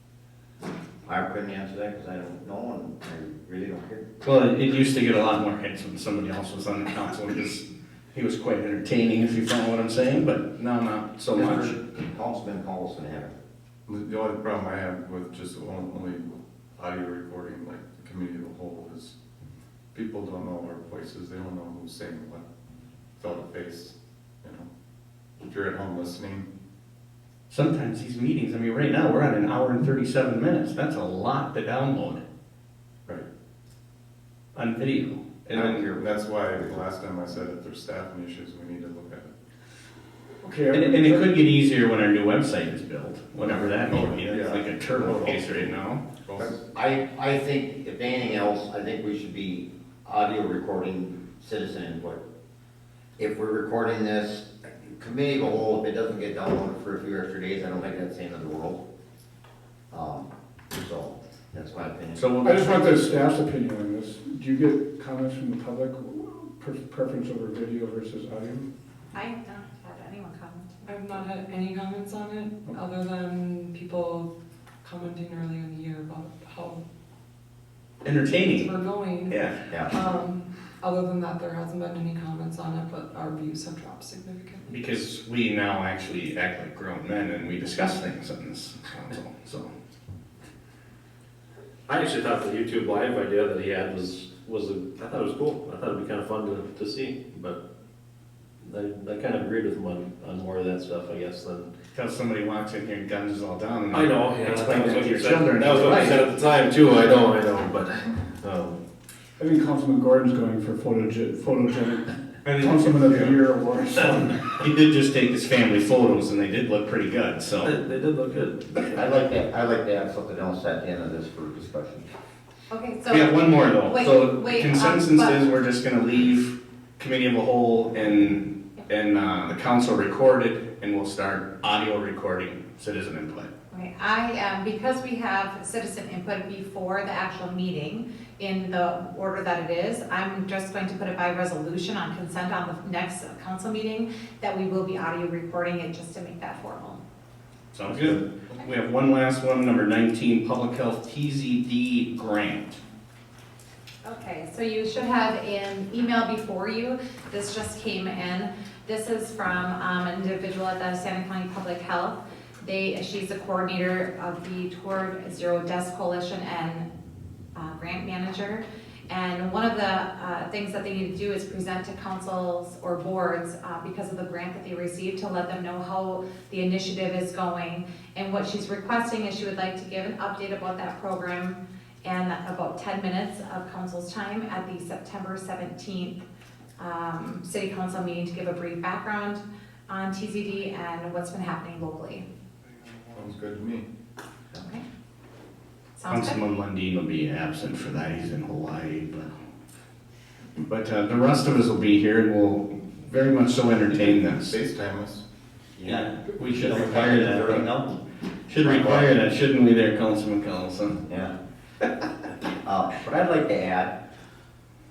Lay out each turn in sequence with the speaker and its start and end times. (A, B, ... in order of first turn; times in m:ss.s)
0:01.1-0:04.1 A
0:04.2-0:11.7 B
0:11.3-0:13.3 A
0:13.9-0:19.2 C
0:19.9-0:22.4 C
0:23.2-0:24.7 C
0:25.4-0:26.5 C
0:27.5-0:32.2 B
0:34.6-0:35.8 B
0:35.5-0:36.8 A
0:35.9-0:39.3 C
0:40.4-0:41.3 D
0:40.7-0:46.0 B
0:43.4-0:46.6 C
0:46.4-0:52.2 A
0:53.2-0:58.8 A
0:59.9-1:02.2 A
1:02.2-1:02.9 B
1:02.4-1:08.7 D
1:09.1-1:11.2 E
1:10.9-1:14.3 F
1:14.8-1:16.8 F
1:18.0-1:18.7 B
1:18.2-1:24.7 F
1:19.3-1:19.6 B
1:24.7-1:29.7 B
1:31.9-1:37.6 G
1:38.6-1:41.7 G
1:41.9-1:46.1 B
1:43.9-1:48.8 G
1:49.4-1:54.4 D
1:52.4-1:53.4 B
1:54.5-1:57.7 B
1:57.6-1:58.9 G
1:58.9-2:02.1 A
2:02.7-2:05.4 E
2:03.1-2:13.5 B
2:13.7-2:27.0 E
2:27.8-2:32.8 B
2:34.0-2:46.8 E
2:47.6-3:06.2 E
3:06.8-3:12.2 E
3:13.1-3:13.9 C
3:14.5-3:14.8 E
3:16.0-3:16.4 E
3:16.1-3:19.3 B
3:20.6-3:24.6 B
3:24.0-3:25.2 C
3:25.8-3:27.9 A
3:25.8-3:27.7 B
3:28.5-3:31.0 B
3:28.6-3:29.1 A
3:31.1-3:31.3 A
3:32.6-3:34.0 A